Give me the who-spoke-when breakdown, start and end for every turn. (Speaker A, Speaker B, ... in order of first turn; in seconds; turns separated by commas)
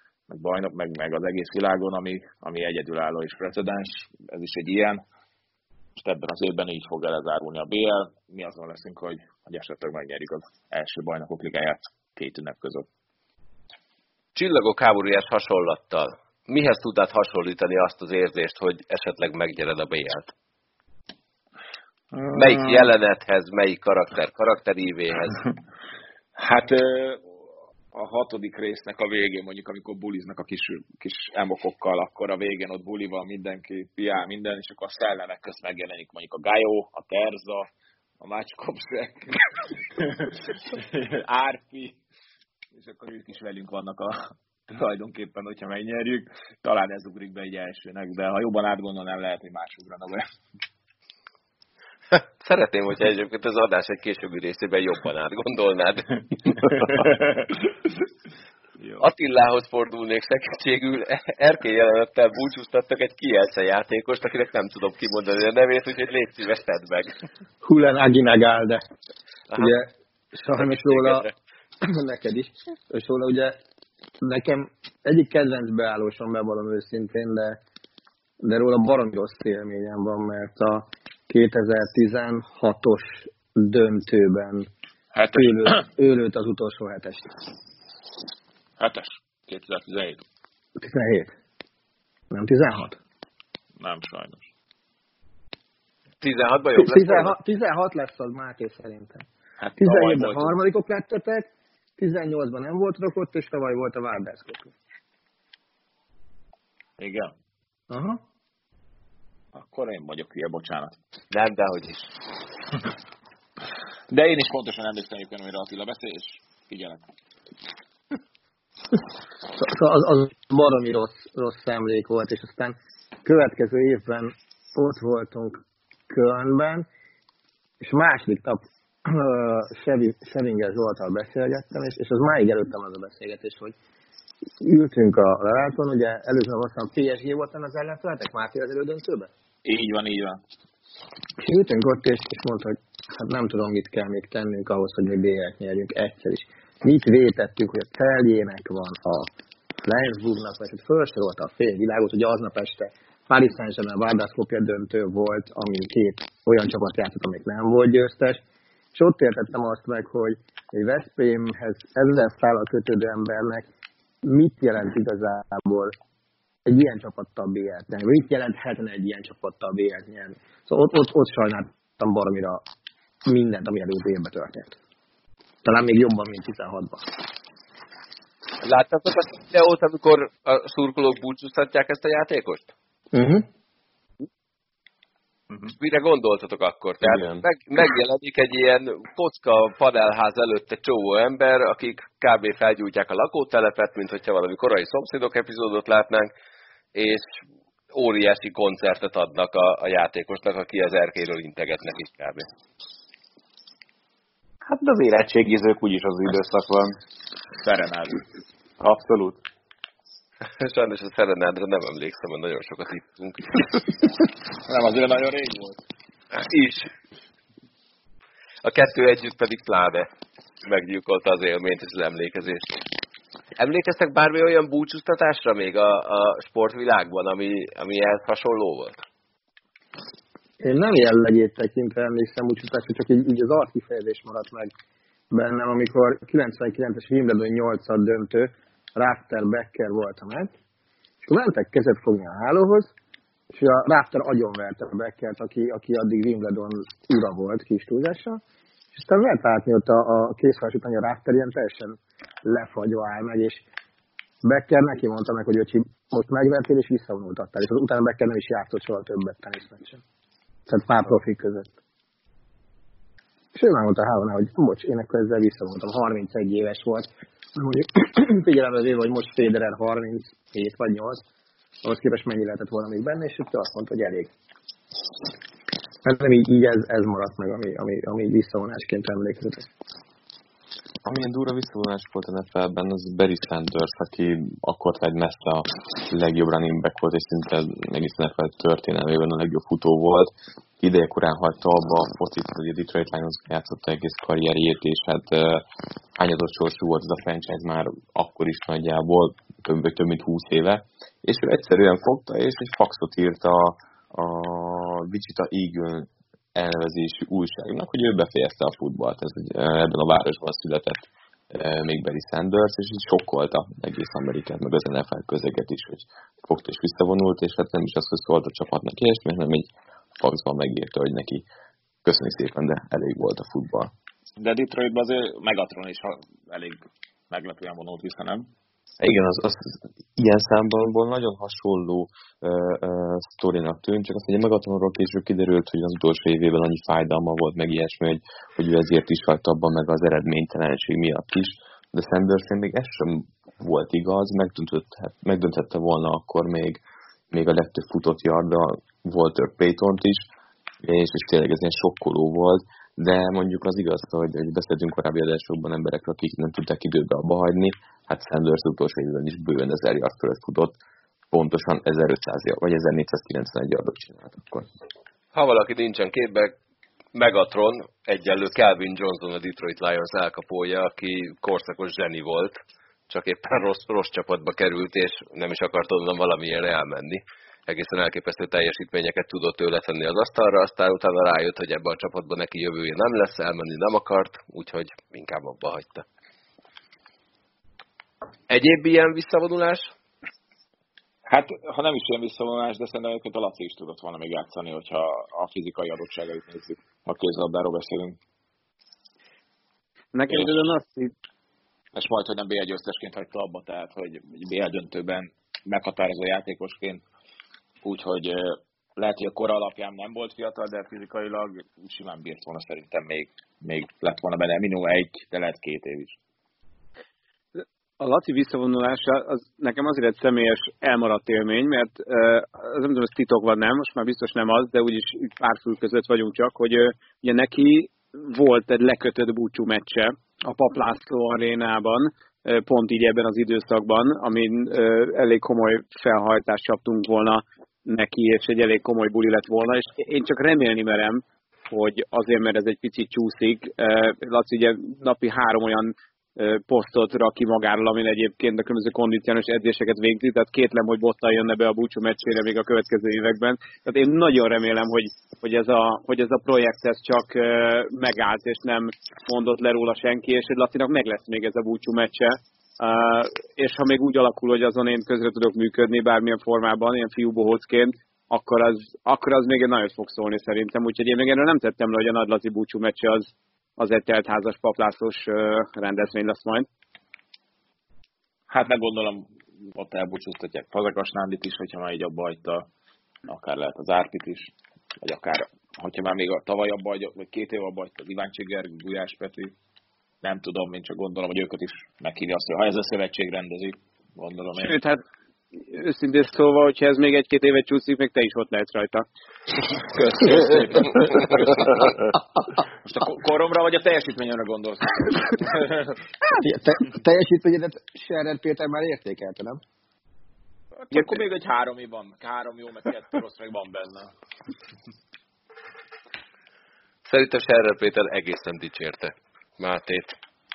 Speaker A: 0.3-5.0, Speaker A: 6.0-12.8, Speaker B: 14.3-20.3, Speaker B: 22.3-25.4, Speaker A: 26.4-27.3, Speaker A: 27.9-37.7, Speaker A: 38.2-42.0, Speaker A: 42.7-50.2, Speaker B: 52.1-56.9, Speaker A: 58.8-59.0, Speaker B: 59.0-67.2, Speaker C: 67.6-68.8, Speaker C: 69.5-71.3, Speaker B: 70.6-71.3, Speaker C: 71.8-73.5, Speaker C: 74.2-77.6, Speaker C: 78.4-84.7, Speaker A: 85.1-85.8, Speaker C: 85.3-87.3, Speaker A: 88.8-90.2, Speaker C: 90.8-91.3, Speaker C: 92.3-93.0, Speaker A: 93.8-94.4, Speaker B: 96.2-97.3, Speaker C: 96.8-99.2, Speaker A: 99.6-100.5, Speaker C: 99.8-101.5, Speaker C: 102.0-104.7, Speaker A: 107.0-107.3, Speaker C: 107.9-108.2, Speaker A: 109.5-111.0, Speaker B: 111.3-112.1, Speaker A: 114.1-117.0, Speaker C: 119.5-126.9, Speaker C: 127.8-133.7, Speaker C: 134.6-139.3, Speaker A: 139.6-140.4, Speaker C: 141.4-149.3, Speaker C: 149.8-158.4, Speaker C: 158.9-163.7, Speaker C: 164.2-165.9, Speaker C: 166.7-172.6, Speaker C: 173.3-174.7, Speaker C: 175.6-177.2, Speaker B: 178.6-182.7, Speaker C: 183.1-183.5, Speaker B: 185.8-196.3, Speaker D: 187.0-187.4, Speaker B: 196.9-197.4, Speaker B: 197.9-202.5, Speaker E: 204.7-207.0, Speaker A: 207.6-208.2, Speaker E: 208.8-209.4, Speaker B: 210.5-213.6, Speaker A: 214.6-215.8, Speaker B: 216.3-216.9, Speaker B: 218.6-220.1, Speaker B: 220.6-222.8, Speaker B: 223.6-229.0, Speaker C: 230.6-234.7, Speaker C: 235.3-240.5, Speaker C: 241.2-242.9, Speaker C: 243.5-248.4, Speaker C: 248.9-253.6, Speaker C: 254.4-260.0, Speaker C: 260.7-261.7, Speaker C: 263.5-271.2, Speaker C: 271.8-274.3, Speaker C: 276.0-279.7, Speaker D: 281.0-295.6, Speaker D: 296.1-321.4, Speaker D: 322.0-323.9, Speaker A: 324.4-328.5, Speaker D: 329.0-350.3, Speaker D: 350.8-360.7, Speaker D: 361.3-364.7, Speaker B: 365.3-366.5, Speaker B: 367.1-386.0, Speaker B: 388.5-389.9, Speaker A: 391.3-398.2, Speaker F: 400.1-401.1, Speaker A: 401.9-407.0, Speaker A: 407.8-416.1, Speaker F: 417.6-476.7, Speaker A: 478.5-482.7, Speaker A: 483.3-489.5, Speaker A: 490.2-494.8, Speaker F: 494.6-495.0, Speaker F: 495.6-499.0, Speaker A: 499.9-501.9, Speaker A: 502.8-506.0, Speaker C: 506.4-509.6, Speaker A: 510.8-514.1, Speaker B: 517.0-520.2